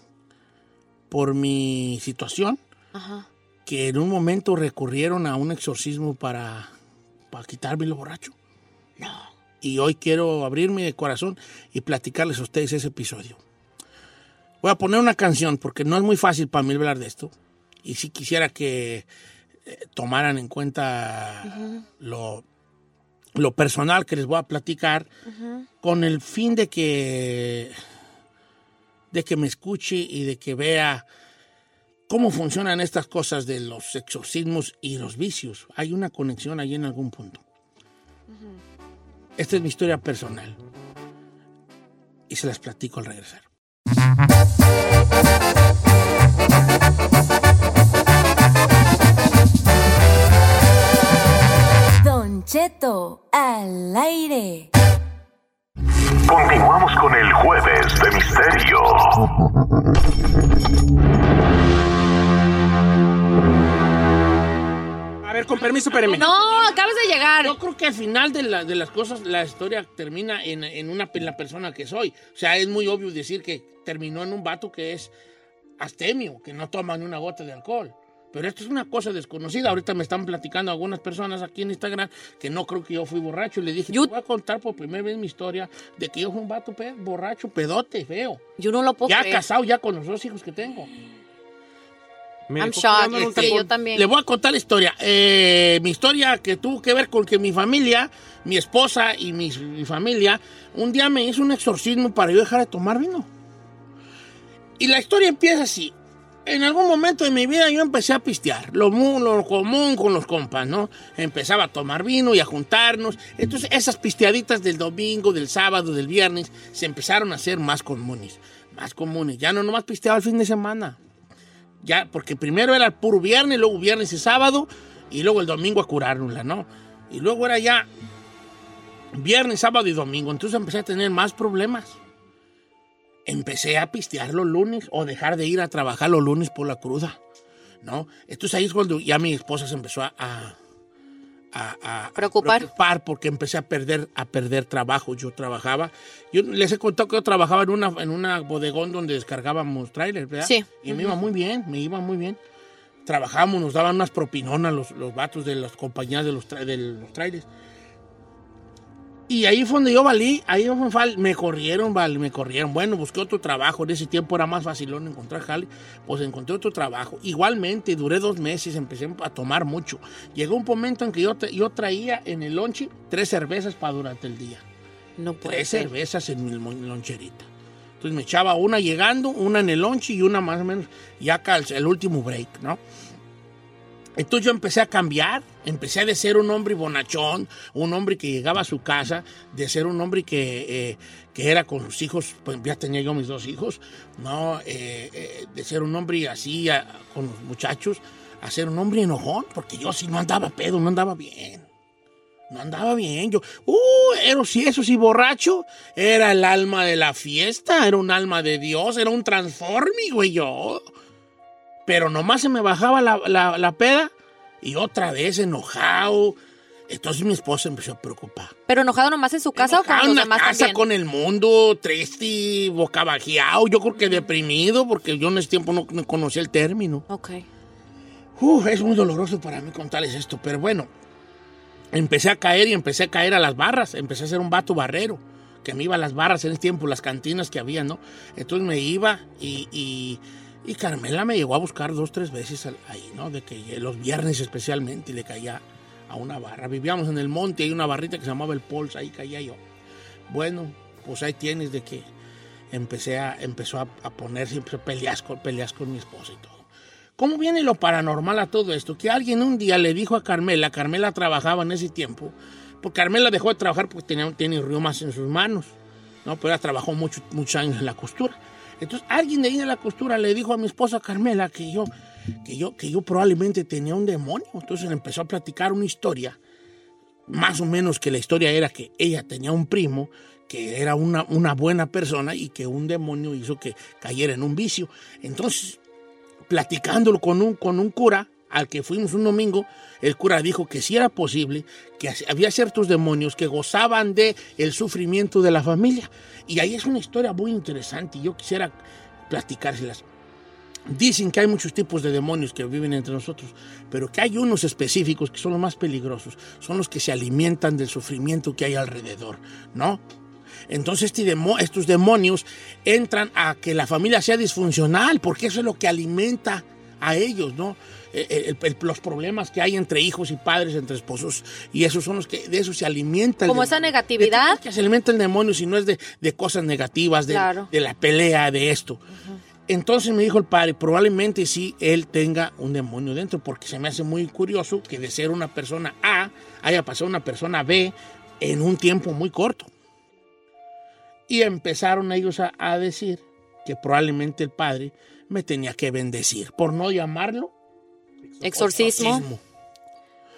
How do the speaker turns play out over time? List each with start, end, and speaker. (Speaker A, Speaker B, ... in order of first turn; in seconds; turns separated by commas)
Speaker A: 1.1-2.6, Speaker B: 2.9-3.3, Speaker A: 3.7-6.7, Speaker A: 7.3-8.3, Speaker B: 9.0-9.3, Speaker A: 9.6-13.4, Speaker A: 14.6-17.3, Speaker A: 17.8-19.1, Speaker A: 19.7-22.4, Speaker B: 21.4-21.8, Speaker A: 23.4-25.1, Speaker B: 25.3-25.7, Speaker A: 25.8-27.7, Speaker A: 29.1-31.1, Speaker A: 32.1-37.4, Speaker A: 39.4-40.6, Speaker A: 42.3-43.5, Speaker C: 52.0-54.7, Speaker D: 56.3-59.2, Speaker E: 65.2-66.3, Speaker B: 65.9-67.6, Speaker A: 67.4-75.1, Speaker A: 75.8-88.4, Speaker B: 88.6-89.4, Speaker A: 89.1-90.9, Speaker E: 92.5-93.6, Speaker B: 92.6-94.1, Speaker A: 93.1-103.3, Speaker A: 104.8-105.9, Speaker A: 106.5-121.0, Speaker A: 121.8-127.9, Speaker A: 129.1-132.0, Speaker A: 133.3-137.2, Speaker A: 137.8-140.6, Speaker A: 141.5-152.4, Speaker B: 142.2-142.7, Speaker B: 150.4-151.1, Speaker A: 153.1-157.5, Speaker A: 159.3-174.6, Speaker B: 175.2-175.9, Speaker A: 175.4-177.5, Speaker A: 178.0-182.8, Speaker A: 184.2-201.7, Speaker A: 202.5-210.8, Speaker A: 211.9-214.1, Speaker A: 214.6-216.4, Speaker A: 216.9-218.5, Speaker B: 218.7-220.8, Speaker A: 219.6-227.1, Speaker B: 227.1-227.4, Speaker A: 228.4-230.9, Speaker A: 231.9-249.6, Speaker A: 250.3-252.1, Speaker A: 252.7-256.6, Speaker A: 257.2-265.7, Speaker A: 266.2-271.9, Speaker A: 272.4-276.4, Speaker A: 277.3-285.8, Speaker A: 286.5-298.8, Speaker A: 299.3-300.0, Speaker A: 300.9-310.0, Speaker A: 310.7-329.0, Speaker B: 323.5-324.6, Speaker B: 327.3-327.7, Speaker A: 329.7-339.7, Speaker A: 341.3-347.5, Speaker A: 348.4-349.4, Speaker B: 348.4-349.2